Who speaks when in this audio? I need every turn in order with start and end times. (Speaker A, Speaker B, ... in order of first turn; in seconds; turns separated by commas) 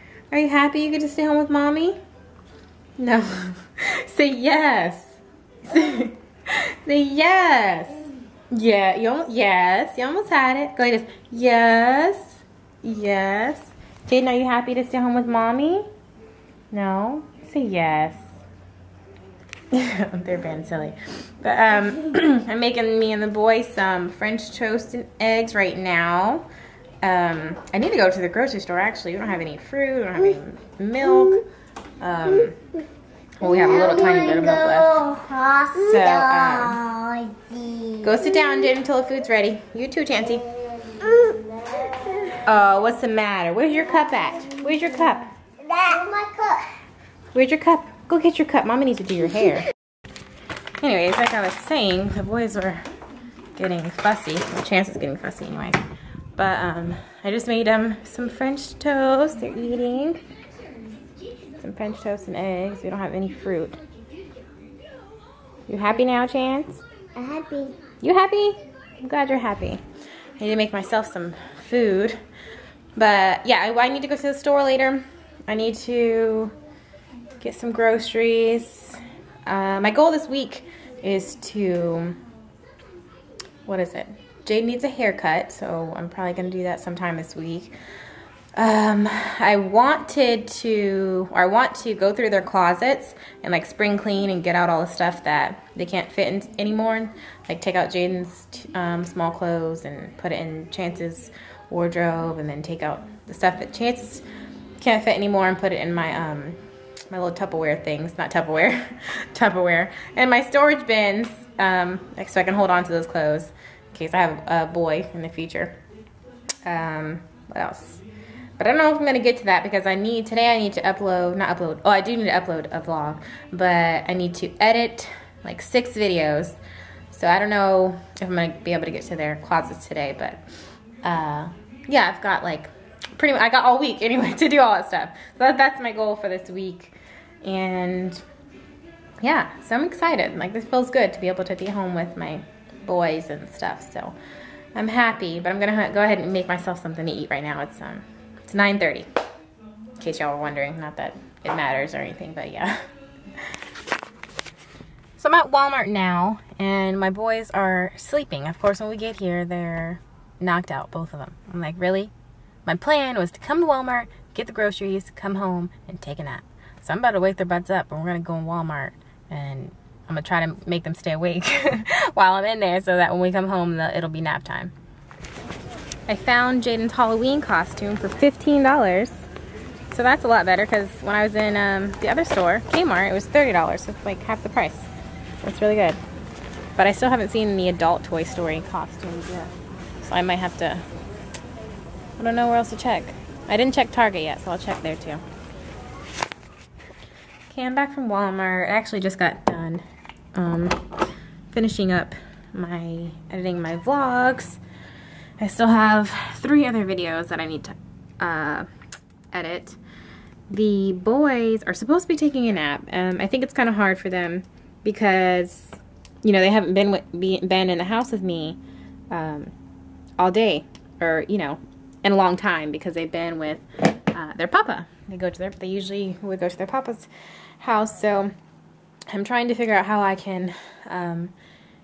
Speaker A: 0.3-2.0, Speaker A: 3.0-15.9, Speaker A: 16.7-18.2, Speaker A: 19.7-26.4, Speaker A: 27.0-31.4, Speaker A: 32.0-32.6, Speaker A: 33.4-35.0, Speaker B: 33.4-38.7, Speaker A: 35.8-36.8, Speaker A: 38.0-40.5, Speaker B: 40.5-42.4, Speaker A: 42.4-45.3, Speaker B: 45.6-46.7, Speaker A: 47.3-49.7, Speaker A: 50.8-52.8, Speaker A: 53.5-55.8, Speaker A: 56.4-60.2, Speaker A: 61.6-63.8, Speaker A: 65.7-66.8, Speaker B: 67.2-67.8, Speaker A: 68.0-69.8, Speaker A: 70.4-72.2, Speaker A: 73.0-76.5, Speaker A: 77.4-82.2, Speaker A: 83.6-87.7, Speaker A: 88.5-104.2, Speaker A: 104.8-106.6, Speaker A: 107.1-115.8, Speaker A: 116.7-118.0, Speaker A: 118.6-126.6, Speaker A: 127.1-130.4, Speaker A: 131.0-138.2, Speaker A: 139.2-144.2, Speaker A: 144.7-149.1, Speaker A: 150.0-152.8, Speaker A: 155.2-162.1, Speaker A: 162.6-174.7, Speaker A: 176.1-179.2, Speaker A: 179.9-184.9, Speaker A: 185.4-186.0, Speaker A: 186.8-190.8, Speaker A: 192.2-195.2, Speaker A: 197.5-200.8, Speaker A: 201.5-204.6, Speaker A: 205.4-208.7, Speaker A: 209.3-209.8, Speaker A: 210.5-218.6, Speaker A: 219.1-219.5, Speaker A: 220.2-227.1, Speaker A: 227.6-228.3, Speaker A: 229.1-231.3